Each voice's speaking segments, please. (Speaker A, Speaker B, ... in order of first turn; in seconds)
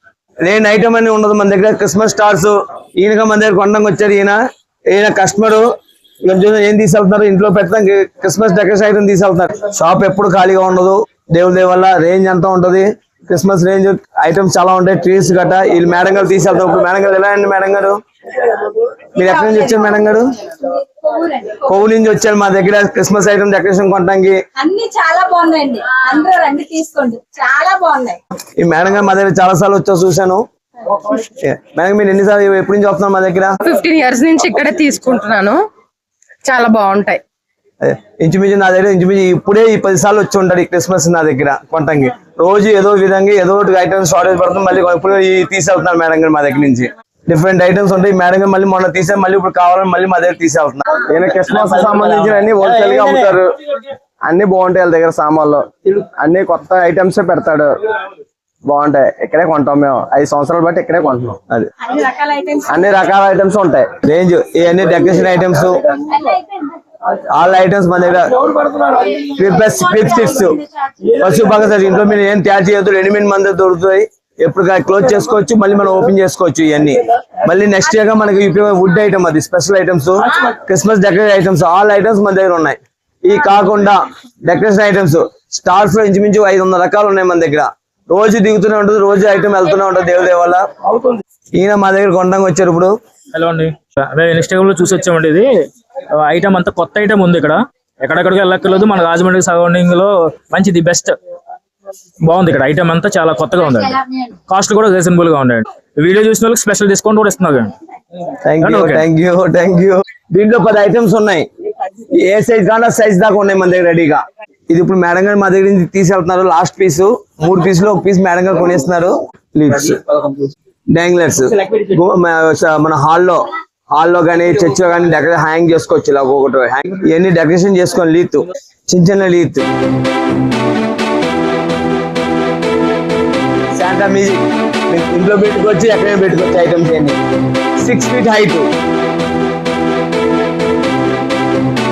Speaker A: 0.4-4.4, 4.9-5.6, 6.2-18.0, 18.5-20.4, 21.6-24.4, 28.6-33.5, 37.8-50.8, 64.0-65.7, 67.3-70.6, 71.2-90.6, 91.6-92.9, 108.5-111.5, 112.2-120.4, 120.9-123.4, 124.0-129.6, 133.7-137.2, 137.8-138.7
Speaker B: 20.8-21.6, 24.6-28.2, 61.9-62.6
Speaker C: 33.6-35.6, 36.4-37.2
Speaker D: 51.1-53.5, 54.3-57.7, 58.7-61.4, 62.7-63.9
Speaker E: 51.5-53.4, 93.3-95.5, 96.2-101.1, 102.2-107.7, 108.6-109.0